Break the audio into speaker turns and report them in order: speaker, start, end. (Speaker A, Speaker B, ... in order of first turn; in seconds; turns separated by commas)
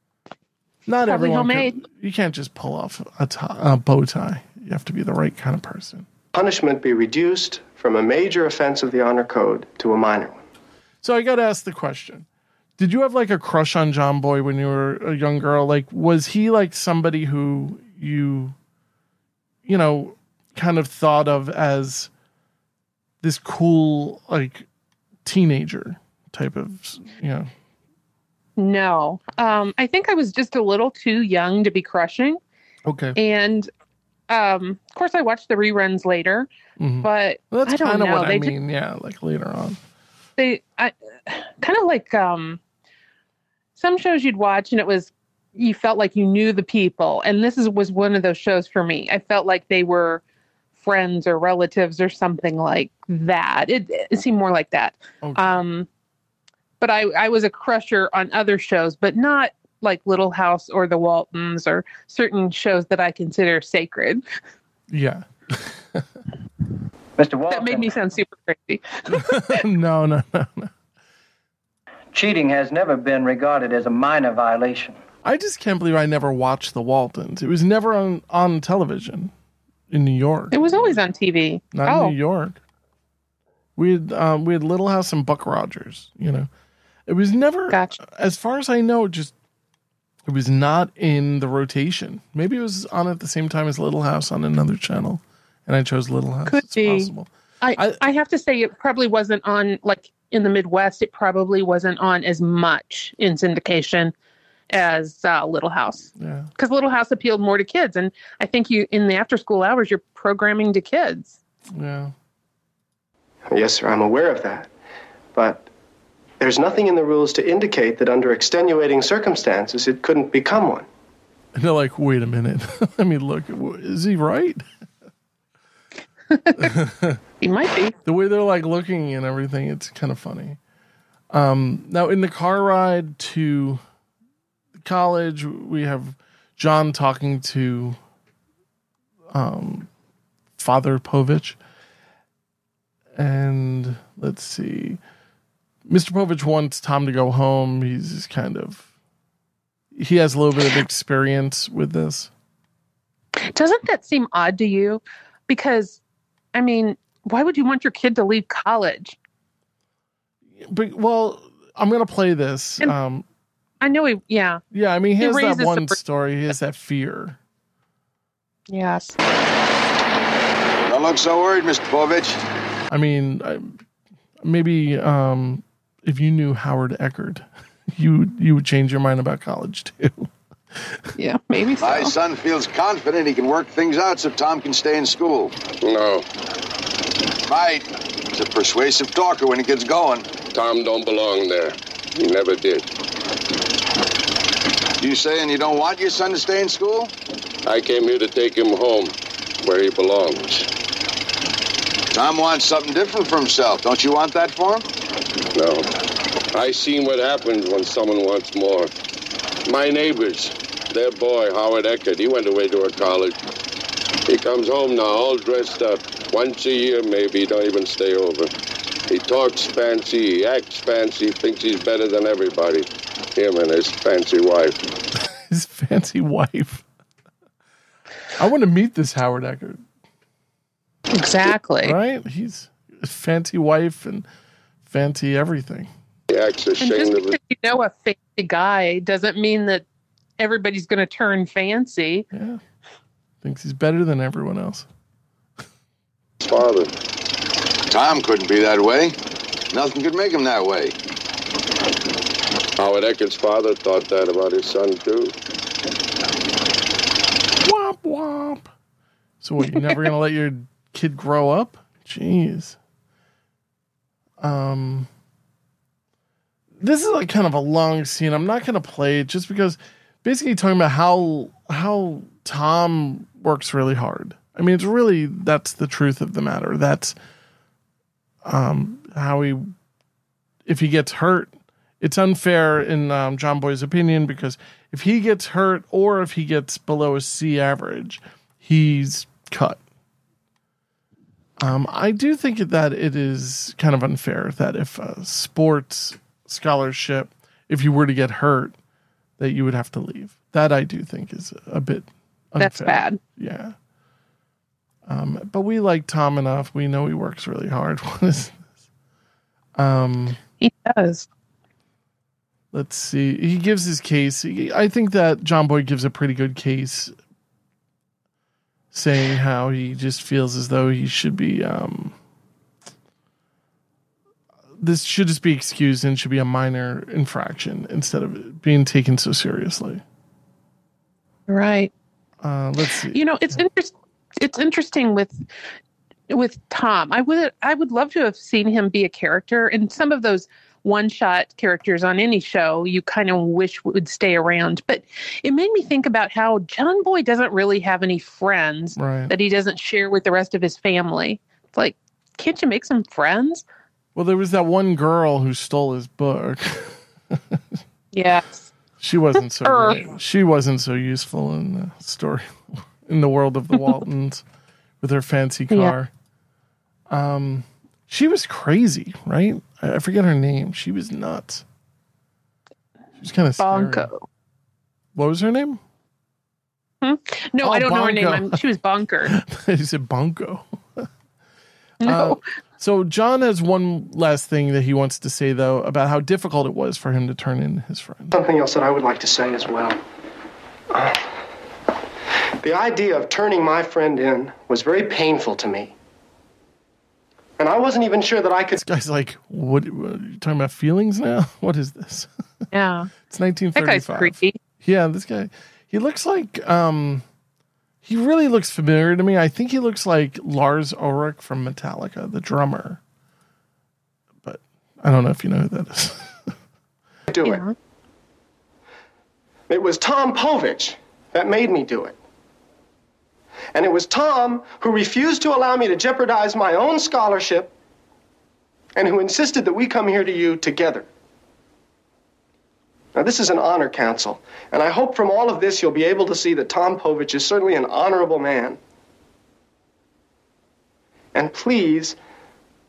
Speaker A: 0.8-6.1, Speaker B: 1.0-1.8, Speaker C: 6.3-10.4, Speaker A: 11.0-12.2, Speaker A: 12.8-18.5, Speaker A: 19.6-22.1, Speaker A: 23.2-24.7, Speaker A: 25.2-27.5, Speaker B: 28.6-32.4, Speaker A: 32.8-33.2, Speaker B: 33.1-33.7, Speaker B: 34.3-36.5, Speaker A: 36.8-39.8, Speaker B: 37.0-38.5, Speaker B: 40.4-42.6, Speaker B: 43.8-50.2, Speaker B: 50.8-55.9, Speaker A: 55.2-55.6, Speaker B: 56.8-64.2, Speaker A: 64.9-66.0, Speaker D: 67.2-68.0, Speaker B: 67.5-69.6, Speaker A: 69.1-70.7, Speaker D: 72.1-75.0, Speaker A: 75.2-79.3, Speaker A: 79.9-81.0, Speaker B: 80.5-82.1, Speaker A: 81.7-82.6, Speaker A: 83.8-86.5, Speaker A: 87.1-89.3, Speaker B: 87.7-87.9, Speaker A: 90.2-98.0, Speaker B: 96.5-104.1, Speaker B: 104.7-111.4, Speaker A: 106.2-106.5, Speaker A: 111.7-112.1, Speaker C: 113.5-114.7, Speaker C: 115.3-115.7, Speaker C: 116.4-120.8, Speaker A: 121.5-124.6, Speaker B: 126.3-126.7, Speaker A: 126.6-127.2, Speaker B: 127.4-127.9, Speaker A: 128.0-130.6, Speaker A: 131.3-133.8, Speaker A: 134.8-138.0, Speaker A: 139.3-139.9, Speaker A: 140.6-141.6, Speaker A: 143.1-145.0, Speaker A: 145.9-148.9, Speaker A: 149.9-152.3, Speaker B: 153.5-156.0, Speaker B: 156.5-159.2, Speaker A: 160.6-163.2, Speaker B: 163.8-164.6, Speaker A: 164.7-167.4, Speaker B: 165.2-166.0, Speaker B: 168.7-169.2, Speaker E: 170.9-172.4, Speaker A: 172.9-173.8, Speaker A: 174.4-181.0, Speaker B: 181.2-182.1, Speaker E: 181.8-185.6, Speaker F: 185.8-186.2, Speaker E: 187.5-190.4, Speaker F: 190.5-192.8, Speaker E: 195.0-197.1, Speaker F: 197.7-200.7, Speaker E: 202.1-204.8, Speaker F: 205.5-205.9, Speaker F: 206.5-208.9, Speaker F: 209.7-213.3, Speaker F: 214.3-218.5, Speaker F: 219.1-224.8, Speaker A: 225.5-226.8, Speaker A: 228.3-229.8, Speaker B: 231.1-231.9, Speaker A: 231.8-234.3, Speaker A: 234.8-235.9, Speaker F: 236.3-237.4, Speaker B: 236.8-239.8, Speaker B: 240.4-242.2, Speaker A: 242.3-242.6, Speaker A: 243.4-244.9, Speaker F: 246.4-246.9, Speaker E: 247.9-249.1, Speaker E: 249.7-250.9, Speaker F: 252.8-255.3, Speaker A: 257.6-258.7, Speaker A: 259.4-262.8, Speaker A: 264.4-265.1, Speaker A: 266.8-277.1, Speaker A: 278.4-279.7, Speaker A: 280.6-289.8, Speaker A: 291.6-298.8, Speaker A: 299.4-303.7, Speaker B: 302.6-303.2, Speaker A: 305.1-308.7, Speaker A: 309.8-310.4, Speaker B: 310.6-311.3, Speaker A: 312.7-317.1, Speaker A: 318.9-322.1, Speaker A: 324.8-330.0, Speaker B: 331.5-331.9, Speaker A: 332.4-333.6, Speaker B: 333.1-335.4, Speaker B: 336.3-353.6, Speaker A: 348.9-349.3, Speaker A: 354.1-357.6, Speaker B: 358.1-358.7, Speaker A: 359.0-364.4, Speaker B: 359.6-360.1, Speaker A: 365.0-366.1, Speaker A: 367.1-371.6, Speaker A: 373.2-374.1, Speaker B: 373.6-374.2, Speaker A: 375.1-375.8, Speaker B: 377.0-379.3, Speaker A: 377.6-378.6, Speaker A: 379.2-381.1, Speaker B: 382.0-382.4, Speaker A: 382.0-388.3, Speaker C: 388.3-390.0, Speaker C: 390.9-391.2, Speaker C: 392.6-395.9, Speaker C: 397.6-398.8, Speaker A: 398.7-402.3, Speaker B: 402.7-403.1, Speaker A: 403.3-407.2, Speaker B: 403.8-404.6, Speaker A: 408.0-413.0, Speaker A: 414.4-416.5, Speaker C: 417.3-417.6, Speaker B: 417.4-417.7, Speaker C: 419.7-422.1, Speaker C: 423.7-427.7, Speaker C: 428.9-431.1, Speaker C: 433.1-438.8, Speaker C: 441.3-442.2